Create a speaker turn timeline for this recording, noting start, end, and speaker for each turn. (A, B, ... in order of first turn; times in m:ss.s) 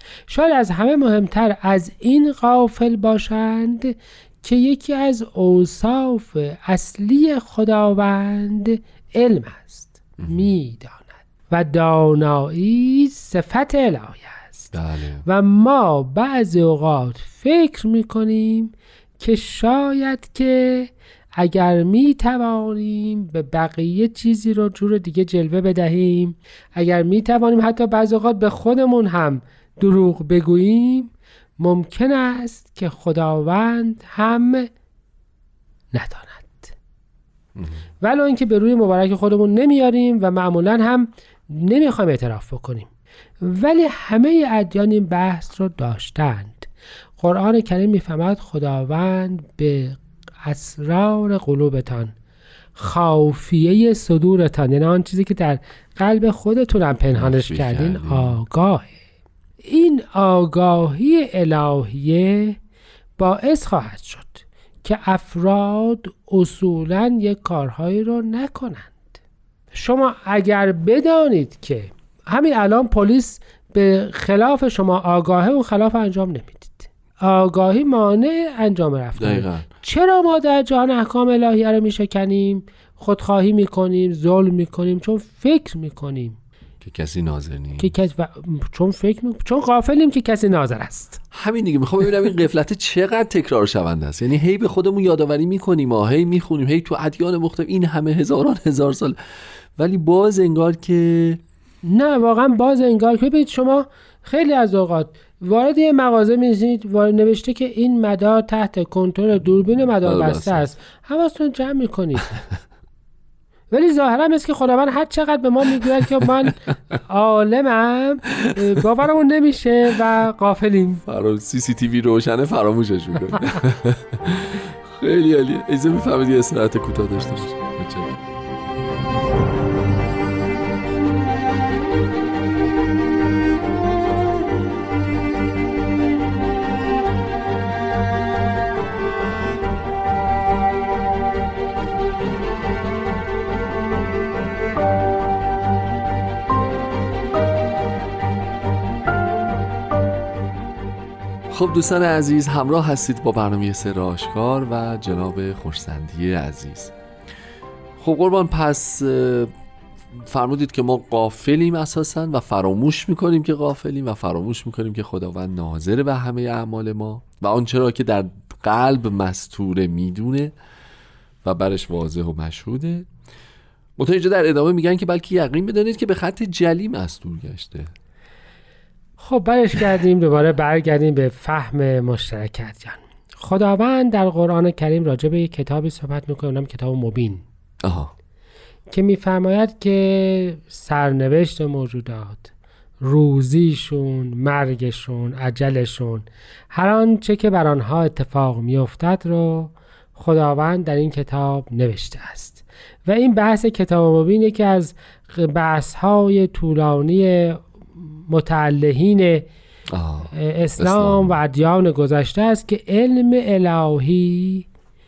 0:00.3-0:14.7 A
0:10.2-0:10.5 B
0:14.7-0:15.2 B
0:15.2-0:34.7 A
0:35.9-0:36.7 A
0:38.0-0:42.9 A
0:43.4-0:52.2 A
0:52.8-0:58.9 A
0:57.2-0:58.4 B
0:59.6-1:02.6 A
1:03.2-1:09.2 A
1:09.7-1:26.4 A
1:19.2-1:19.7 B
1:26.8-1:28.0 B
1:27.8-1:31.2 A
1:31.3-1:39.2 B
1:39.8-1:41.4 B
1:41.8-1:52.4 A
1:50.0-1:50.7 B
1:53.7-2:01.0 A
2:01.1-2:08.2 B
2:31.5-2:36.9 B
2:38.0-2:39.5 B
2:40.2-2:50.5 B
2:51.4-2:53.1 B
2:54.0-2:57.9 B
2:59.2-3:07.4 A
3:07.8-3:08.1 B
3:08.9-3:29.5 A
3:29.9-3:31.4 B
3:30.3-3:34.7 A